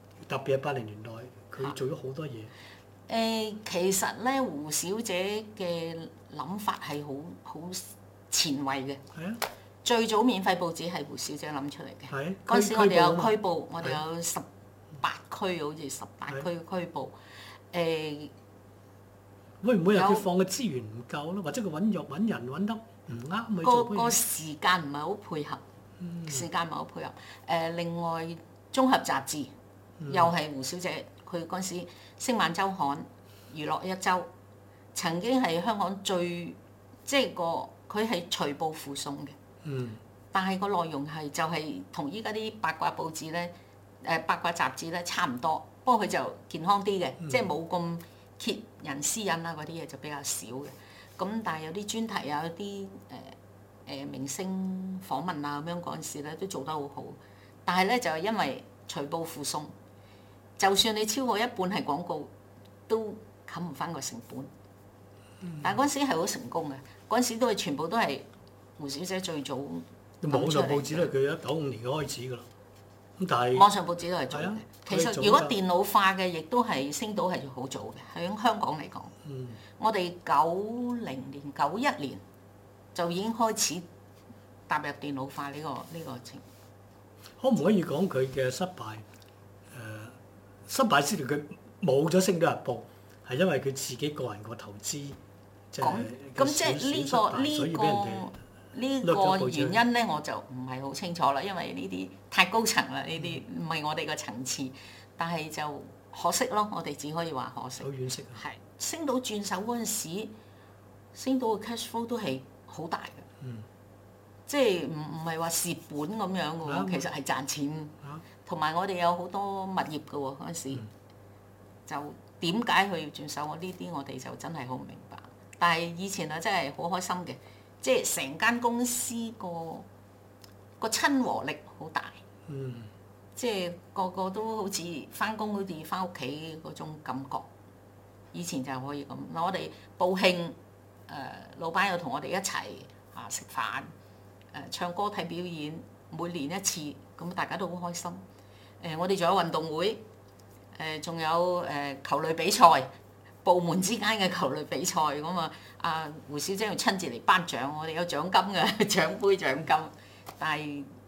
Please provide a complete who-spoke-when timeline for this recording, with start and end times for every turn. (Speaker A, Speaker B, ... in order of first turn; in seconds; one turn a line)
Speaker A: 0.3-2.5
Speaker B: 3.1-9.0
Speaker A: 9.1-9.4
Speaker B: 9.8-14.4
Speaker A: 12.1-14.0
Speaker B: 15.0-17.1
Speaker B: 17.7-18.3
Speaker A: 19.6-24.2
Speaker B: 19.9-20.2
Speaker B: 23.6-25.6
Speaker A: 26.0-26.4
Speaker B: 26.2-29.5
Speaker A: 30.0-30.3
Speaker B: 30.1-34.3
Speaker B: 34.9-39.4
Speaker A: 39.6-40.0
Speaker B: 40.3-59.7
Speaker A: 47.2-47.5
Speaker B: 60.6-62.3
Speaker B: 62.9-64.5
Speaker A: 65.4-65.8
Speaker B: 65.6-71.1
Speaker A: 70.2-72.5
Speaker A: 73.2-73.7
Speaker B: 73.5-79.1
Speaker A: 74.3-75.5
Speaker A: 79.2-79.6
Speaker B: 79.8-82.2
Speaker B: 82.9-83.8
Speaker B: 84.7-86.4
Speaker A: 87.4-89.0
Speaker A: 89.7-95.2
Speaker A: 95.7-98.3
Speaker B: 95.8-110.3
Speaker A: 99.0-99.8
Speaker A: 107.8-108.4
Speaker B: 111.1-113.3
Speaker A: 113.4-113.7
Speaker B: 114.5-120.8
Speaker A: 116.6-117.1
Speaker B: 121.8-129.9
Speaker B: 130.8-132.2
Speaker A: 132.5-132.9
Speaker B: 133.3-137.5
Speaker B: 138.3-143.9
Speaker B: 144.5-148.2
Speaker B: 148.8-150.0
Speaker B: 150.7-152.9
Speaker B: 153.4-160.9